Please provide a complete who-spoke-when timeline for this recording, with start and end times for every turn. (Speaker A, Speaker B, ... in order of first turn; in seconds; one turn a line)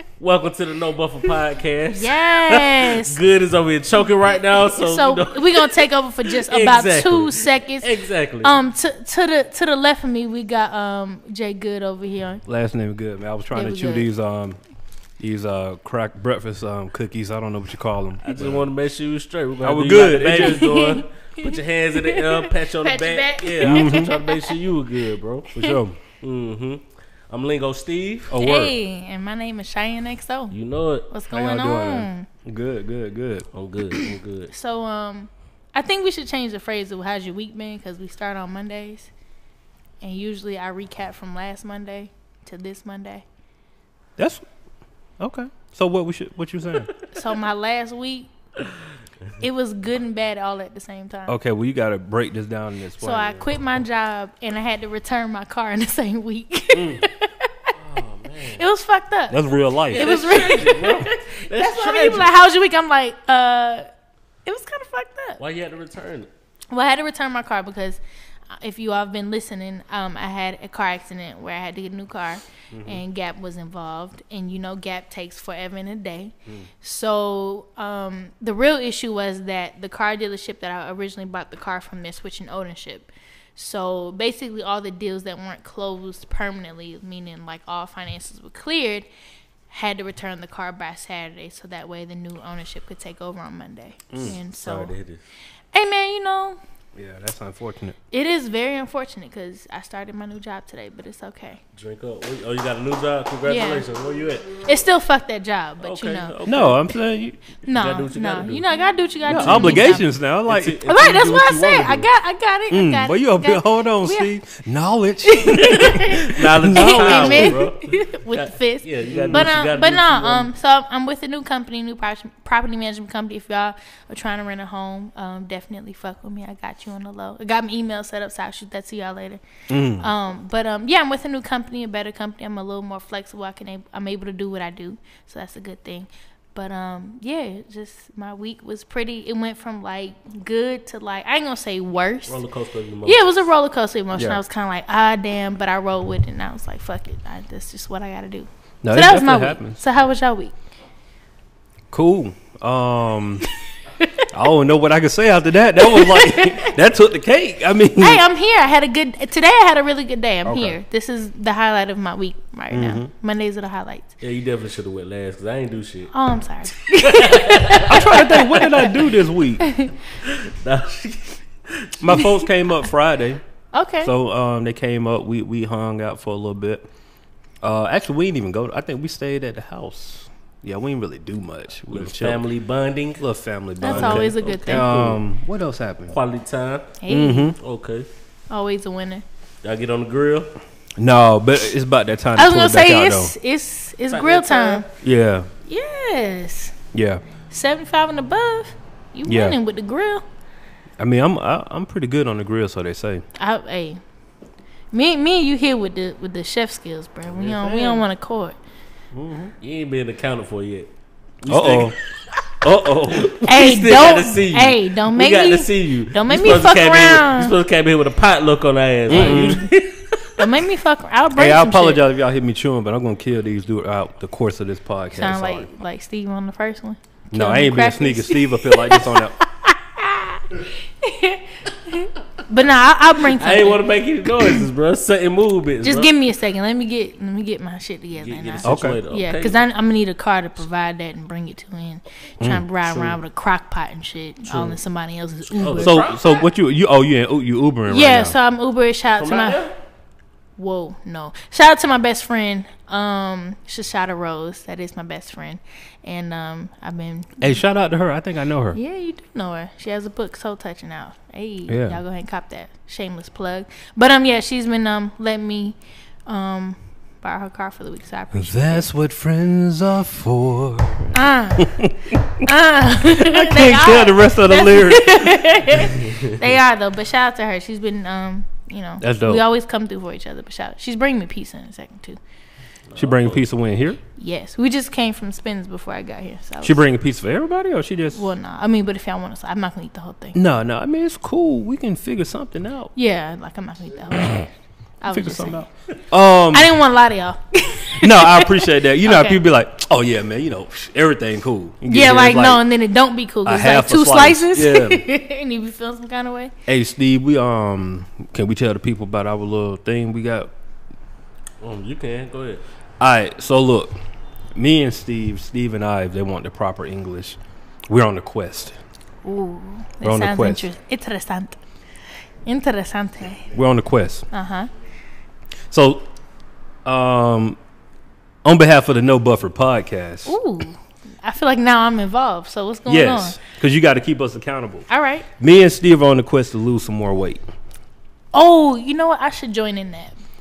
Speaker A: 0.2-8.6
Speaker B: 1.9-3.2
Speaker B: 4.6-7.9
Speaker B: 8.4-12.4
Speaker C: 12.4-14.6
Speaker B: 13.5-14.1
Speaker C: 15.2-18.6
Speaker A: 18.2-25.5
Speaker C: 19.6-20.8
Speaker B: 20.4-24.5
Speaker C: 23.6-24.1
Speaker C: 25.5-26.0
Speaker A: 26.2-28.3
Speaker C: 28.3-28.7
Speaker B: 28.3-30.5
Speaker A: 30.5-31.1
Speaker B: 31.1-32.2
Speaker C: 31.3-33.5
Speaker A: 33.5-34.5
Speaker B: 33.9-39.1
Speaker B: 40.0-43.2
Speaker C: 44.2-44.4
Speaker C: 45.2-47.0
Speaker B: 47.1-48.3
Speaker B: 49.4-51.4
Speaker C: 51.3-53.5
Speaker B: 53.0-57.7
Speaker C: 56.7-57.0
Speaker A: 57.8-58.6
Speaker B: 58.5-63.9
Speaker C: 59.3-60.5
Speaker A: 59.9-62.3
Speaker B: 64.4-65.4
Speaker A: 65.4-66.3
Speaker B: 66.7-68.0
Speaker B: 68.5-89.1
Speaker C: 72.7-73.0
Speaker B: 89.7-94.9
Speaker C: 94.1-94.4
Speaker A: 94.2-95.2
Speaker B: 95.7-96.6
Speaker C: 96.9-98.0
Speaker B: 98.1-101.6
Speaker A: 101.7-104.6
Speaker B: 103.5-103.9
Speaker B: 104.6-106.4
Speaker A: 105.8-106.9
Speaker C: 106.5-107.4
Speaker B: 107.6-110.1
Speaker A: 107.7-108.7
Speaker A: 109.2-112.1
Speaker C: 109.3-110.8
Speaker B: 110.8-114.3
Speaker C: 112.7-117.6
Speaker B: 115.2-129.4
Speaker A: 115.8-120.5
Speaker C: 119.1-119.5
Speaker C: 129.7-130.1
Speaker B: 130.0-142.4
Speaker A: 142.3-143.3
Speaker B: 143.0-150.6
Speaker C: 144.1-144.4
Speaker C: 148.8-149.8
Speaker C: 151.9-153.4
Speaker B: 154.0-154.2
Speaker C: 154.3-158.2
Speaker B: 155.8-156.7
Speaker B: 158.0-164.1
Speaker C: 160.4-160.7
Speaker C: 162.7-163.1
Speaker A: 164.2-166.1
Speaker B: 166.1-168.9
Speaker A: 166.9-168.8
Speaker C: 167.8-169.7
Speaker B: 169.6-169.9
Speaker A: 170.2-172.1
Speaker C: 172.0-173.4
Speaker B: 173.7-174.1
Speaker C: 174.0-176.8
Speaker C: 177.6-182.4
Speaker A: 181.9-183.2
Speaker C: 183.2-186.2
Speaker B: 183.8-184.9
Speaker A: 183.8-185.2
Speaker A: 186.1-187.0
Speaker B: 187.0-187.5
Speaker C: 187.1-187.6
Speaker A: 187.6-188.1
Speaker B: 188.5-189.2
Speaker A: 189.6-190.5
Speaker C: 191.0-193.3
Speaker B: 192.3-194.8
Speaker A: 194.1-194.9
Speaker C: 195.0-195.5
Speaker B: 195.7-196.7
Speaker C: 196.9-197.2
Speaker B: 197.5-200.2
Speaker C: 199.3-199.6
Speaker C: 201.0-203.2
Speaker B: 203.4-204.0
Speaker B: 204.9-208.6
Speaker A: 207.3-208.0
Speaker C: 209.1-209.5
Speaker A: 209.6-210.9
Speaker A: 211.4-211.9
Speaker C: 211.5-211.9
Speaker C: 212.6-213.3
Speaker A: 213.1-219.9
Speaker B: 213.4-217.5
Speaker C: 219.1-219.7
Speaker B: 220.4-222.0
Speaker C: 221.3-225.7
Speaker B: 225.1-233.8
Speaker C: 227.3-229.3
Speaker A: 233.3-236.1
Speaker B: 235.8-246.0
Speaker A: 238.2-239.6
Speaker C: 238.6-239.0
Speaker A: 242.9-243.2
Speaker A: 244.5-244.8
Speaker A: 245.5-246.5
Speaker C: 245.8-248.3
Speaker B: 247.9-249.6
Speaker A: 249.2-249.7
Speaker B: 250.6-257.6
Speaker C: 257.4-258.8
Speaker B: 258.7-268.9
Speaker C: 261.7-262.0
Speaker C: 268.3-272.2
Speaker B: 271.1-271.7
Speaker B: 272.4-282.2
Speaker C: 273.1-275.5
Speaker C: 279.0-279.4
Speaker A: 282.9-283.4
Speaker C: 282.9-284.0
Speaker B: 284.2-286.8
Speaker C: 286.6-288.2
Speaker B: 288.1-290.4
Speaker C: 290.3-292.9
Speaker B: 292.9-295.6
Speaker C: 295.1-296.7
Speaker B: 296.5-299.4
Speaker C: 298.0-302.6
Speaker B: 301.9-306.5
Speaker C: 303.4-304.5
Speaker A: 304.5-305.0
Speaker C: 306.7-310.5
Speaker A: 311.6-312.6
Speaker C: 313.0-313.9
Speaker C: 314.5-317.4
Speaker C: 317.9-318.8
Speaker B: 319.2-321.6
Speaker C: 320.0-320.7
Speaker B: 322.4-323.4
Speaker C: 323.5-324.3
Speaker B: 324.3-324.7
Speaker C: 325.7-326.0
Speaker C: 326.8-327.6
Speaker C: 328.4-330.4
Speaker B: 330.2-333.4
Speaker C: 332.9-334.9
Speaker B: 334.9-335.2
Speaker C: 335.4-337.4
Speaker B: 338.3-340.1